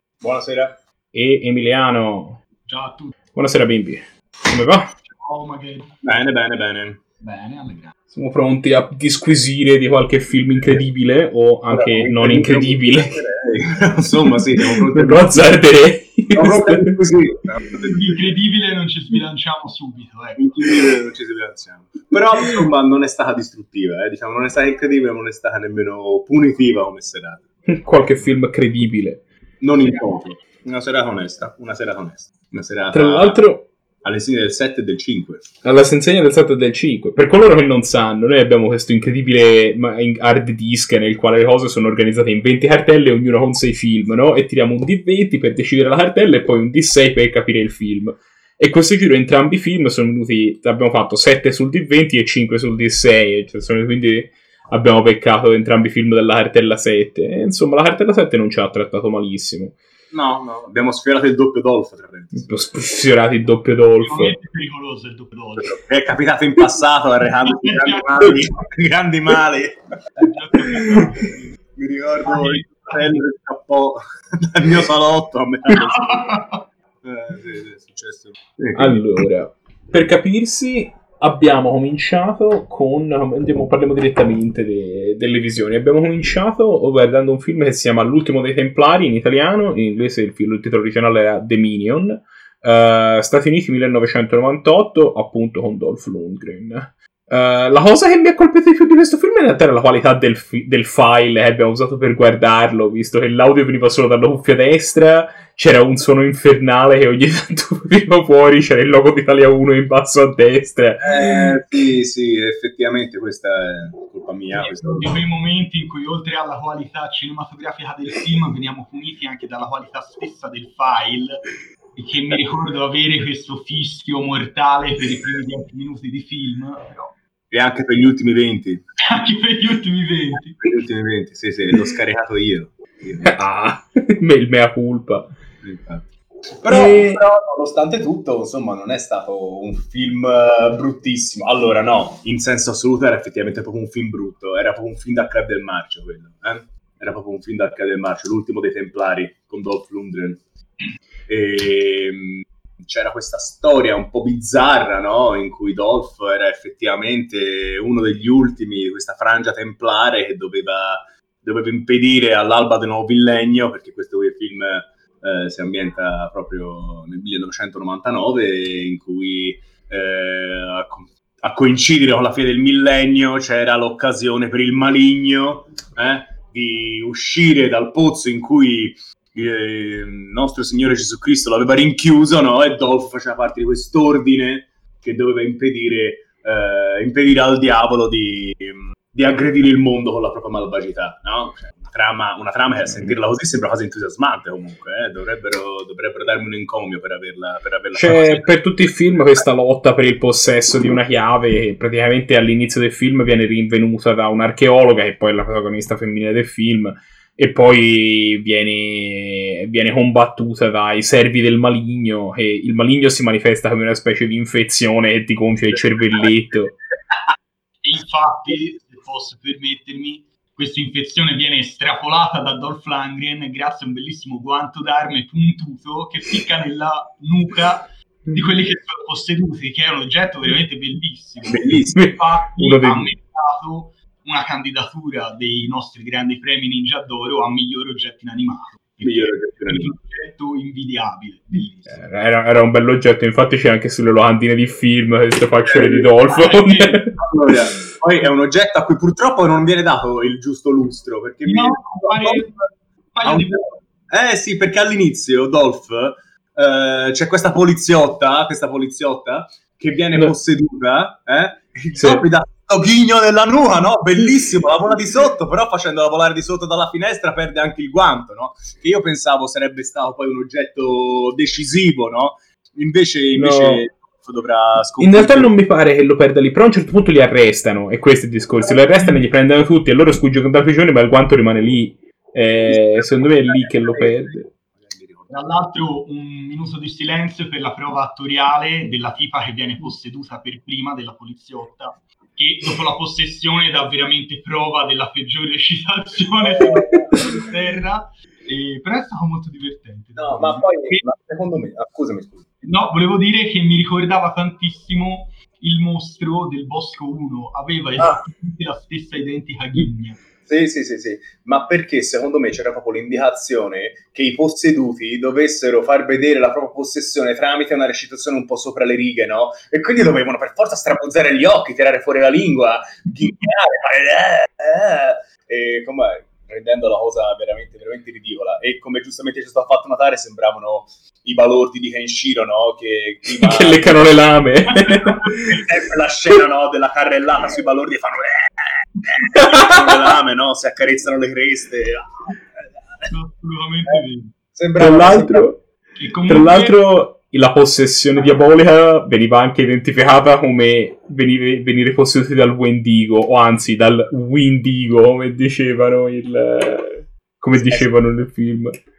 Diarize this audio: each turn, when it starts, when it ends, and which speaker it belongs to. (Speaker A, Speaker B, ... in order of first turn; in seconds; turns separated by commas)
Speaker A: 0.2-0.8, Speaker B: 1.1-2.4, Speaker C: 2.7-3.1, Speaker B: 3.4-5.0, Speaker C: 5.1-6.0, Speaker A: 6.0-7.0, Speaker C: 7.2-8.0, Speaker B: 8.1-13.2, Speaker A: 11.7-15.5, Speaker B: 14.6-17.0, Speaker A: 16.3-18.1, Speaker C: 17.7-20.6, Speaker A: 20.4-27.4, Speaker B: 27.7-29.3, Speaker A: 29.6-33.5, Speaker B: 32.9-33.7, Speaker A: 34.0-35.5, Speaker B: 35.6-59.8, Speaker A: 60.1-62.5, Speaker B: 62.4-64.4, Speaker C: 64.0-65.8, Speaker A: 65.6-70.3, Speaker C: 67.5-68.4, Speaker C: 70.2-71.4, Speaker A: 71.8-76.4, Speaker C: 72.2-73.1, Speaker C: 75.7-76.6, Speaker A: 77.0-79.0, Speaker B: 78.8-111.4, Speaker A: 111.0-115.1, Speaker C: 114.5-121.4, Speaker C: 122.0-127.1, Speaker A: 127.5-128.8, Speaker C: 129.0-130.7, Speaker A: 130.6-133.4, Speaker B: 133.2-135.3, Speaker A: 135.6-136.1, Speaker A: 136.6-150.4, Speaker B: 136.7-137.2, Speaker A: 151.3-198.5, Speaker B: 192.9-193.2, Speaker B: 197.9-216.8, Speaker C: 217.8-242.0, Speaker A: 231.4-232.0, Speaker B: 231.9-233.1, Speaker A: 239.0-239.9, Speaker B: 241.9-247.2, Speaker A: 245.7-246.1, Speaker C: 246.3-247.2, Speaker A: 247.2-252.4, Speaker C: 251.5-253.7, Speaker A: 253.2-275.5, Speaker B: 261.9-262.2, Speaker B: 273.4-273.9, Speaker B: 275.0-284.5, Speaker A: 282.7-285.4, Speaker C: 285.3-301.0, Speaker A: 296.4-297.1, Speaker A: 300.2-302.6, Speaker C: 302.6-310.2, Speaker A: 310.4-334.2, Speaker B: 333.2-335.5, Speaker A: 335.3-342.4, Speaker B: 339.3-339.7, Speaker C: 343.1-344.3, Speaker A: 344.5-345.5, Speaker B: 344.8-345.6, Speaker C: 346.0-346.8, Speaker B: 346.3-358.8, Speaker A: 357.6-357.9